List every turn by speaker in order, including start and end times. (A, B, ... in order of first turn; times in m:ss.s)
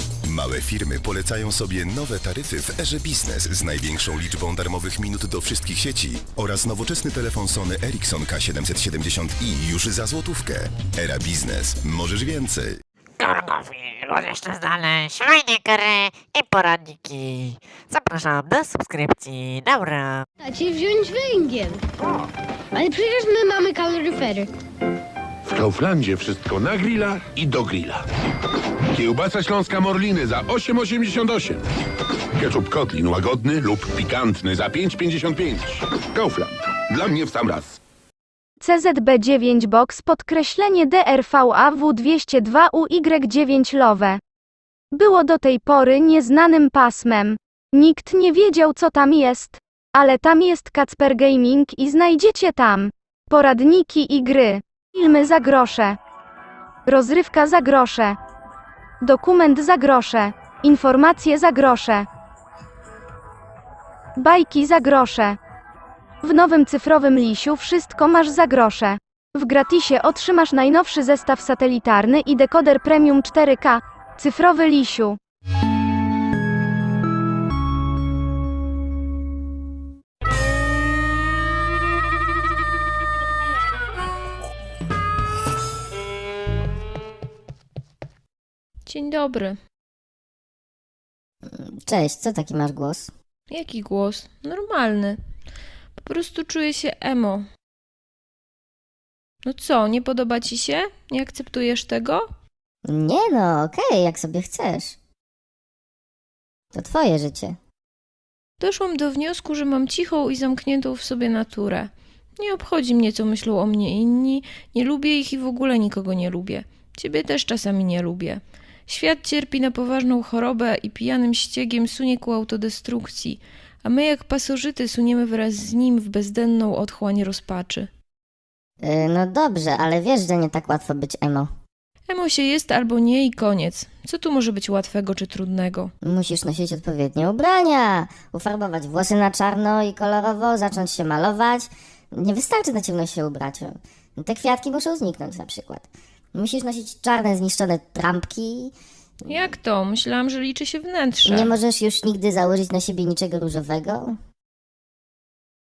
0:00.2-0:12.8 A
0:13.2-0:20.2 B
0:20.4-0:21.8 C
0:22.7-0:24.5 C
0:25.5-0:28.0 D
0:28.9-0:31.6 D
0:32.4-0:37.8 D
0:38.6-0:44.2 E
0:44.9-0:56.0 E
0:56.8-0:58.2 E
0:59.0-1:02.1 E
1:04.2-1:05.4 E
1:06.2-1:15.2 E
1:28.8-1:29.6 F
1:31.4-1:33.1 G
1:33.5-1:35.2 F
1:36.0-1:37.5 F
1:39.4-1:42.3 F
1:42.9-1:45.0 G
1:46.7-1:47.6 G
1:48.6-2:07.9 F
2:08.8-2:11.5 G
2:12.1-2:15.9 F
2:16.0-2:28.7 G
2:29.3-2:29.5 G
2:29.3-2:31.5 F
2:31.2-2:34.2 G